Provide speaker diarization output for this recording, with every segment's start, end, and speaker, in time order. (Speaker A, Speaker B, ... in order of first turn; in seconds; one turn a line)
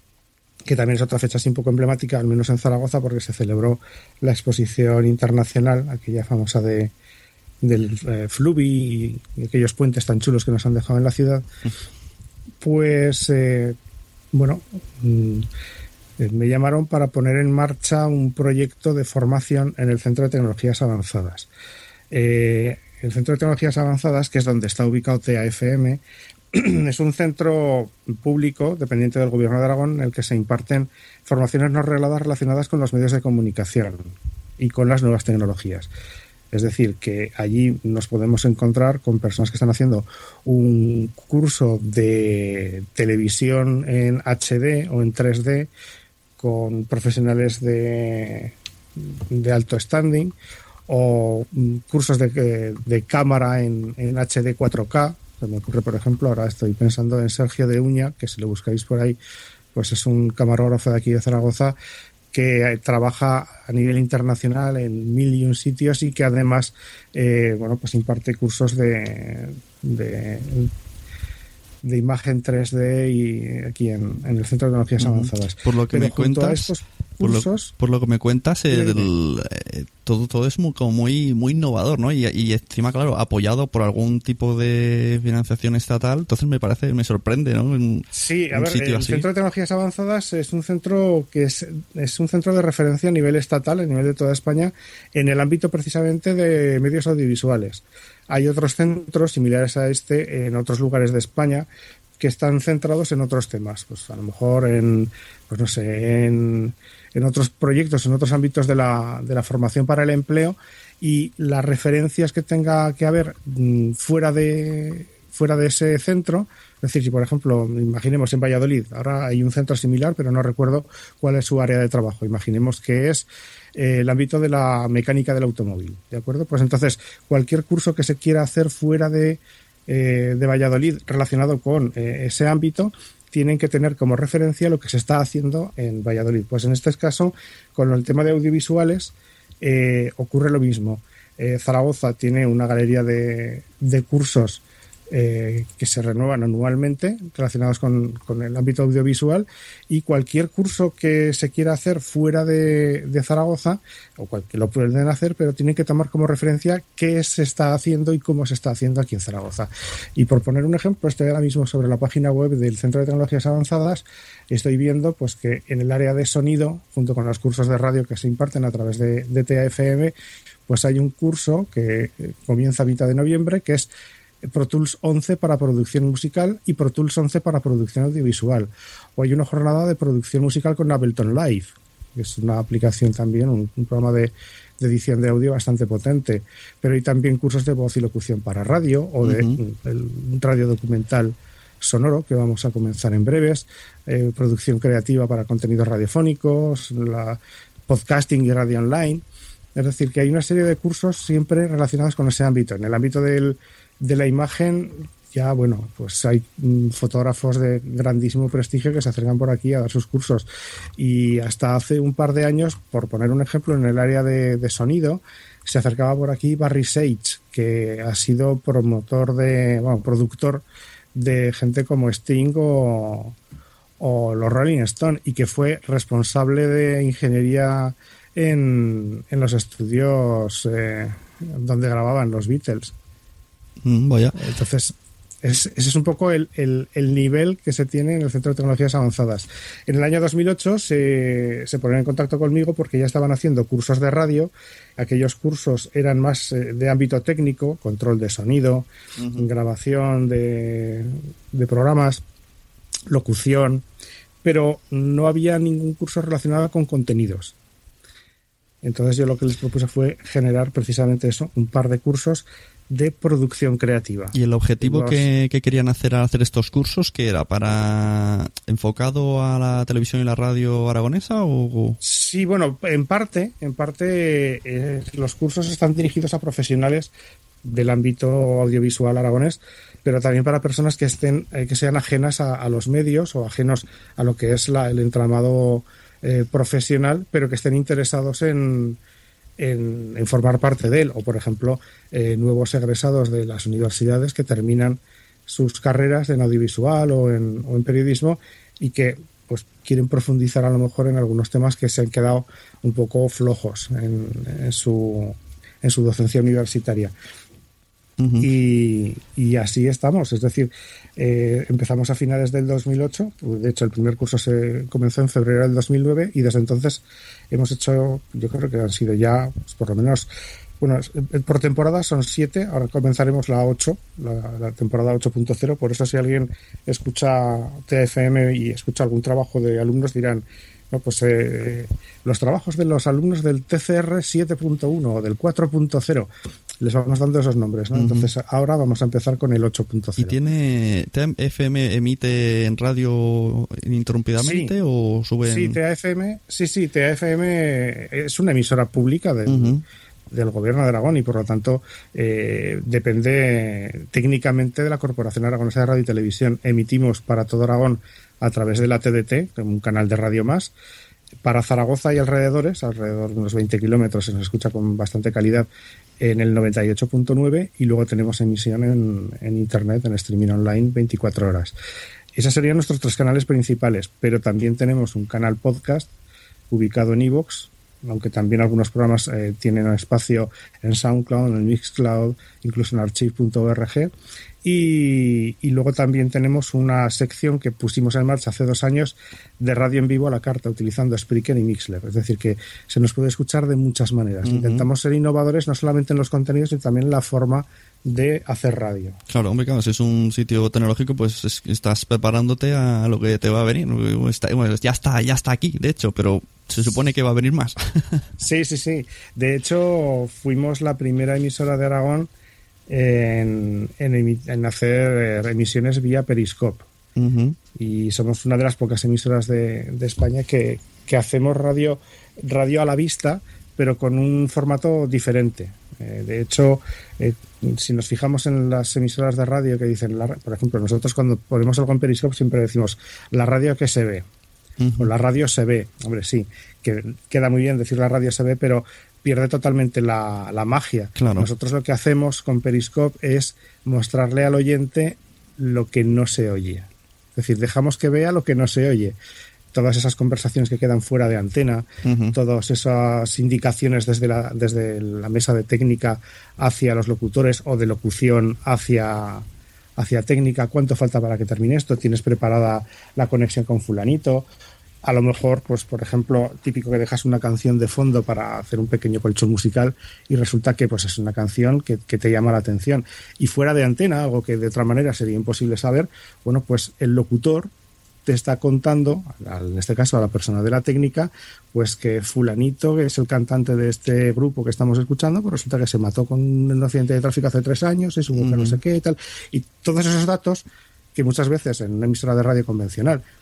Speaker A: 0.7-6.9
Speaker A: 7.6-11.4
Speaker A: 12.6-13.8
Speaker A: 14.3-15.5
Speaker A: 16.2-21.5
Speaker A: 22.1-35.9
Speaker A: 36.5-45.7
Speaker A: 46.4-50.3
Speaker A: 50.9-59.2
Speaker A: 59.7-61.8
Speaker A: 62.3-70.7
Speaker A: 71.8-77.7
Speaker B: 75.0-89.3
Speaker A: 78.7-79.1
Speaker A: 88.1-101.7
Speaker A: 102.2-170.1
Speaker A: 170.7-173.9
Speaker A: 174.4-199.2
Speaker B: 189.2-189.6
Speaker A: 199.7-223.4
Speaker A: 224.0-232.9
Speaker B: 233.8-234.3
Speaker A: 234.3-252.2
Speaker B: 249.2-249.5
Speaker A: 253.1-253.8
Speaker A: 254.4-257.5
Speaker A: 258.8-265.2
Speaker B: 264.3-272.0
Speaker A: 272.0-277.1
Speaker A: 277.6-289.0
Speaker A: 289.6-307.1
Speaker B: 308.2-308.5
Speaker A: 308.4-320.3
Speaker A: 320.8-340.4
Speaker B: 337.9-338.3
Speaker B: 340.2-345.8
Speaker A: 344.4-344.7
Speaker A: 345.4-349.8
Speaker B: 349.5-349.8
Speaker A: 350.3-360.7
Speaker A: 361.4-365.7
Speaker A: 366.2-371.8
Speaker A: 372.3-376.1
Speaker A: 376.7-384.1
Speaker A: 384.6-399.2
Speaker B: 394.4-394.9
Speaker B: 399.3-408.2
Speaker A: 408.4-412.3
Speaker A: 412.9-416.9
Speaker B: 417.1-417.6
Speaker A: 417.7-434.3
Speaker B: 434.8-435.1
Speaker A: 435.0-449.1
Speaker B: 441.2-441.5
Speaker A: 449.7-464.5
Speaker B: 452.0-452.3
Speaker A: 465.0-477.7
Speaker A: 478.2-493.2
Speaker B: 488.3-488.8